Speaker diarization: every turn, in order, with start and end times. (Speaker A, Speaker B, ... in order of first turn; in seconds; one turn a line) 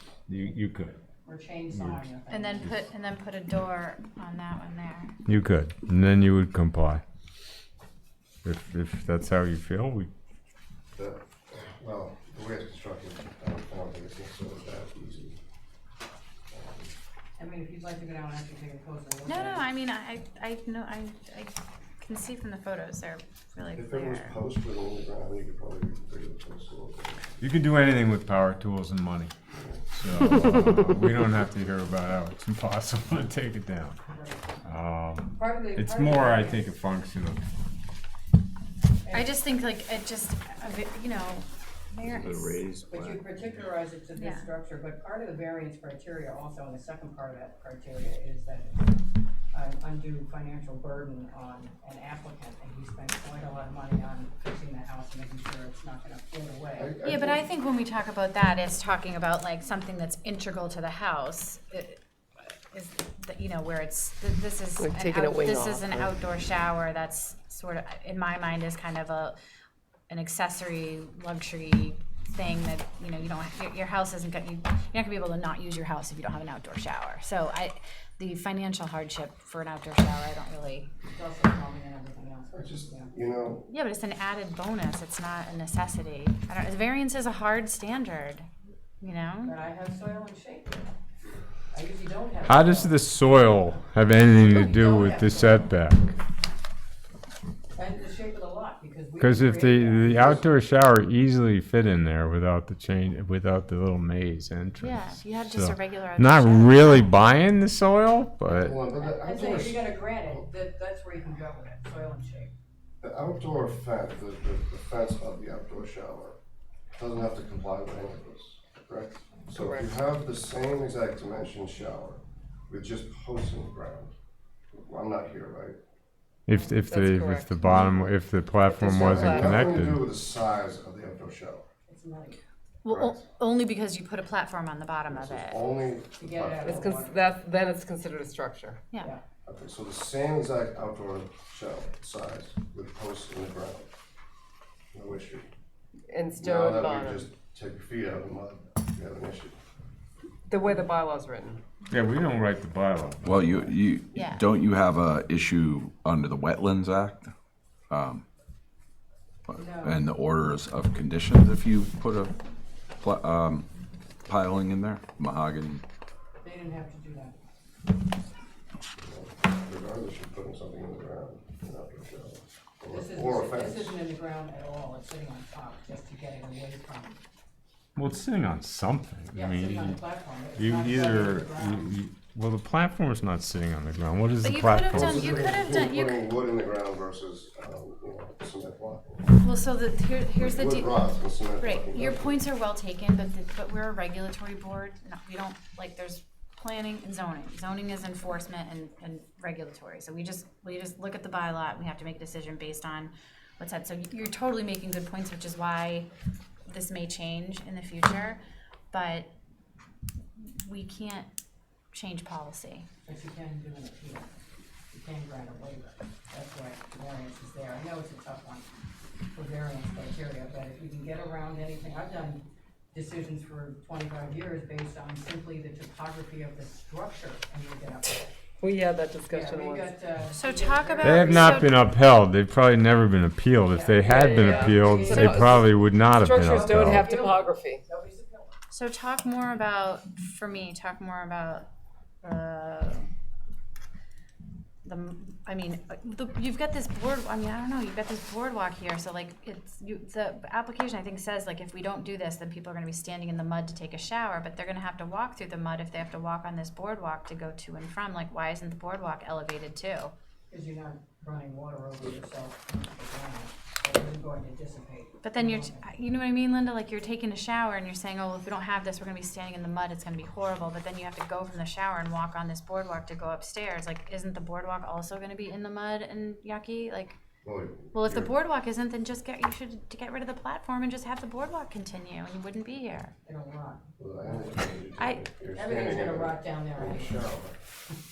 Speaker A: 0.3-0.9
Speaker B: 1.2-2.7
Speaker A: 1.7-2.0
Speaker C: 2.3-5.1
Speaker A: 5.2-7.0
Speaker A: 8.4-10.1
Speaker D: 10.9-15.4
Speaker D: 16.5-16.9
Speaker B: 17.4-19.7
Speaker C: 19.3-24.4
Speaker D: 23.7-27.4
Speaker A: 27.4-29.3
Speaker D: 29.5-29.8
Speaker A: 29.9-34.0
Speaker B: 34.1-34.6
Speaker A: 34.6-37.4
Speaker B: 35.3-36.6
Speaker B: 39.0-39.3
Speaker C: 39.1-42.6
Speaker E: 42.0-43.2
Speaker B: 42.9-48.8
Speaker C: 44.1-44.5
Speaker B: 49.5-57.0
Speaker D: 56.8-57.5
Speaker C: 57.0-69.4
Speaker F: 64.8-66.1
Speaker C: 70.1-80.9
Speaker B: 81.1-83.1
Speaker D: 82.5-83.7
Speaker C: 83.7-88.5
Speaker C: 89.0-89.5
Speaker B: 89.5-90.9
Speaker B: 91.7-95.7
Speaker A: 92.5-96.1
Speaker B: 97.8-100.4
Speaker A: 99.2-108.8
Speaker D: 100.1-100.5
Speaker C: 104.8-107.2
Speaker D: 108.5-110.4
Speaker B: 109.0-112.5
Speaker D: 113.0-116.4
Speaker D: 117.0-124.1
Speaker F: 119.5-120.0
Speaker D: 124.7-125.8
Speaker A: 126.5-130.0
Speaker F: 126.8-129.8
Speaker D: 128.7-131.6
Speaker B: 131.9-132.4
Speaker C: 132.8-135.8
Speaker D: 132.8-133.2
Speaker D: 135.1-137.0
Speaker B: 136.2-137.3
Speaker F: 136.6-138.8
Speaker B: 139.0-139.2
Speaker D: 139.4-143.9
Speaker D: 144.9-145.5
Speaker F: 146.1-147.3
Speaker D: 146.4-149.6
Speaker F: 150.5-151.6
Speaker A: 151.9-153.8
Speaker E: 153.2-157.3
Speaker C: 154.1-154.5
Speaker E: 157.9-158.2
Speaker E: 159.5-162.3
Speaker B: 159.5-160.0
Speaker E: 163.0-163.7
Speaker E: 164.3-165.8
Speaker B: 166.4-167.3
Speaker D: 169.0-174.0
Speaker B: 172.9-177.2
Speaker A: 177.9-180.0
Speaker B: 179.3-181.9
Speaker A: 180.6-185.3
Speaker C: 184.4-186.2
Speaker D: 184.9-189.3
Speaker C: 189.3-191.0
Speaker D: 190.3-192.4
Speaker C: 191.6-206.1
Speaker C: 206.7-208.4
Speaker C: 208.9-209.3
Speaker C: 210.4-211.3
Speaker C: 211.9-212.8
Speaker B: 213.0-214.3
Speaker B: 214.9-218.7
Speaker B: 219.3-228.3
Speaker F: 228.6-229.9
Speaker B: 229.3-231.7
Speaker C: 230.3-231.8
Speaker A: 231.0-237.1
Speaker B: 233.7-235.6
Speaker F: 234.1-237.8
Speaker C: 235.1-235.5
Speaker B: 236.3-238.5
Speaker C: 238.7-241.7
Speaker C: 242.2-243.1
Speaker C: 244.8-260.1
Speaker B: 260.5-265.9
Speaker C: 265.2-277.2
Speaker D: 277.4-278.3
Speaker C: 277.9-283.1
Speaker B: 283.2-284.5
Speaker D: 284.0-287.6
Speaker C: 285.0-285.2
Speaker B: 285.6-287.2